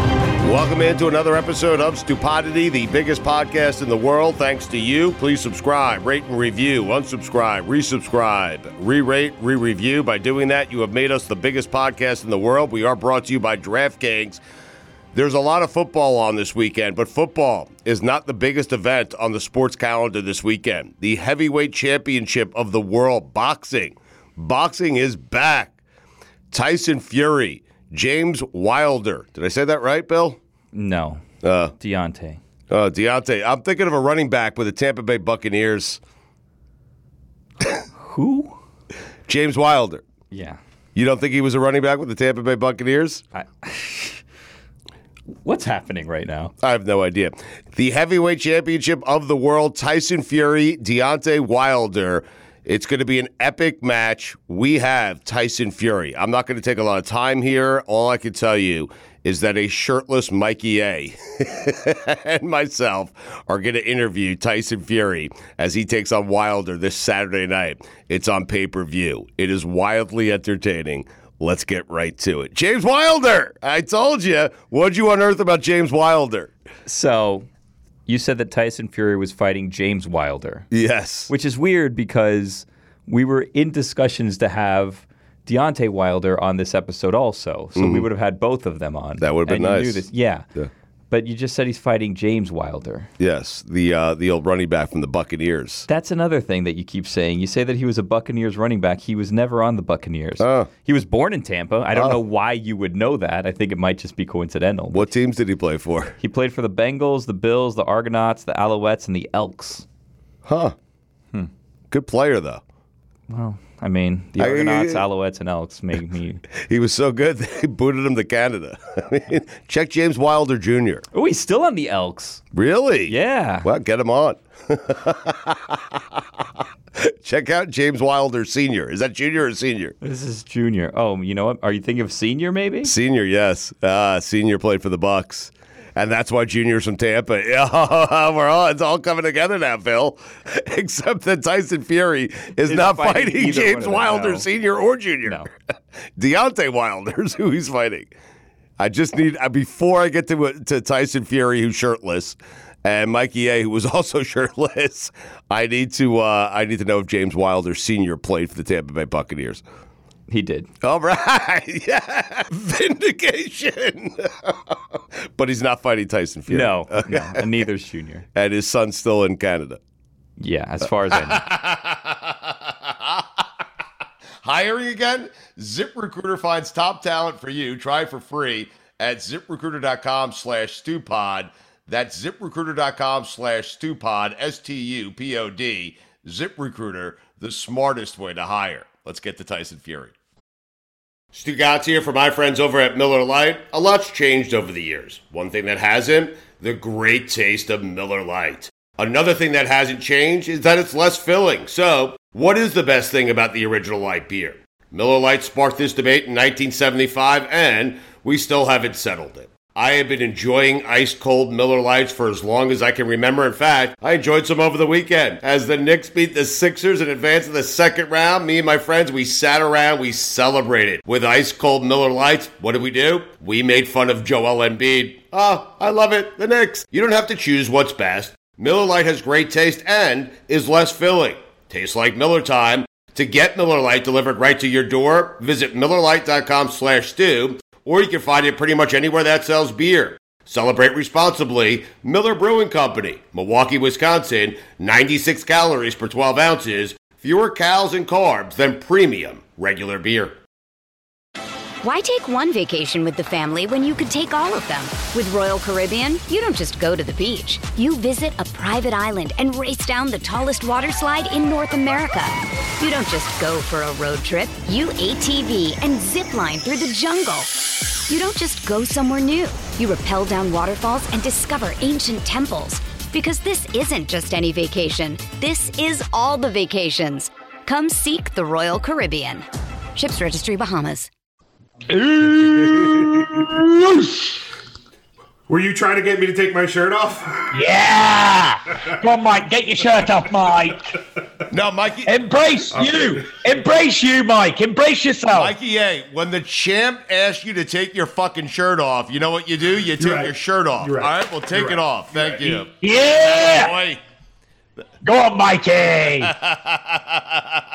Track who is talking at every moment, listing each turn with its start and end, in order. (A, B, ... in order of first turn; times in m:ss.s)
0:00.4-0:14.4 A
0:15.1-0:25.7 A
0:26.5-0:30.4 A
0:30.7-0:31.2 B
0:31.4-0:31.7 A
0:31.8-0:32.4 B
0:32.7-0:36.0 A
0:38.0-0:38.6 B
0:39.3-0:40.0 A
0:40.3-0:40.6 B
0:40.9-0:43.2 A
0:43.3-0:44.2 B
0:45.4-0:46.5 B
0:46.6-1:16.5 A
1:16.8-1:17.5 B
1:18.1-1:20.7 B
1:20.7-1:21.3 A
1:21.3-1:30.4 B
1:27.8-1:28.0 A
1:29.2-1:30.0 A
1:31.1-1:33.1 B
1:33.2-1:35.9 A
1:35.9-1:45.1 B
1:40.4-1:40.7 A
1:44.9-1:46.2 A
1:46.2-1:49.8 B
1:50.4-1:50.7 A
1:51.9-1:52.6 A
1:53.3-1:56.4 B
1:54.4-1:55.0 A
1:56.6-2:01.0 A
2:01.1-2:02.4 B
2:02.5-2:06.0 A
2:03.1-2:03.7 B
2:07.0-2:10.0 A
2:10.0-2:12.9 B
2:12.8-2:25.4 A
2:22.7-2:24.5 B
2:26.2-2:28.1 A
2:28.8-2:39.6 A
2:40.3-2:40.7 B
2:40.8-2:47.4 A
2:46.5-2:48.2 B
2:48.3-2:49.8 A
2:50.4-2:51.4 B
2:51.1-2:53.4 A
2:54.4-3:10.1 A
3:11.3-4:10.4 A
4:11.8-4:41.1 C
4:41.9-4:44.4 D
4:42.4-4:43.4 E
4:45.5-4:47.5 E
4:47.5-4:50.9 D
4:51.5-4:52.1 A
4:52.0-4:55.5 D
4:52.7-4:53.4 E
4:55.3-5:04.0 A
5:00.0-5:02.6 E
5:02.8-5:03.7 D
5:05.0-5:06.3 D
5:06.2-5:07.6 A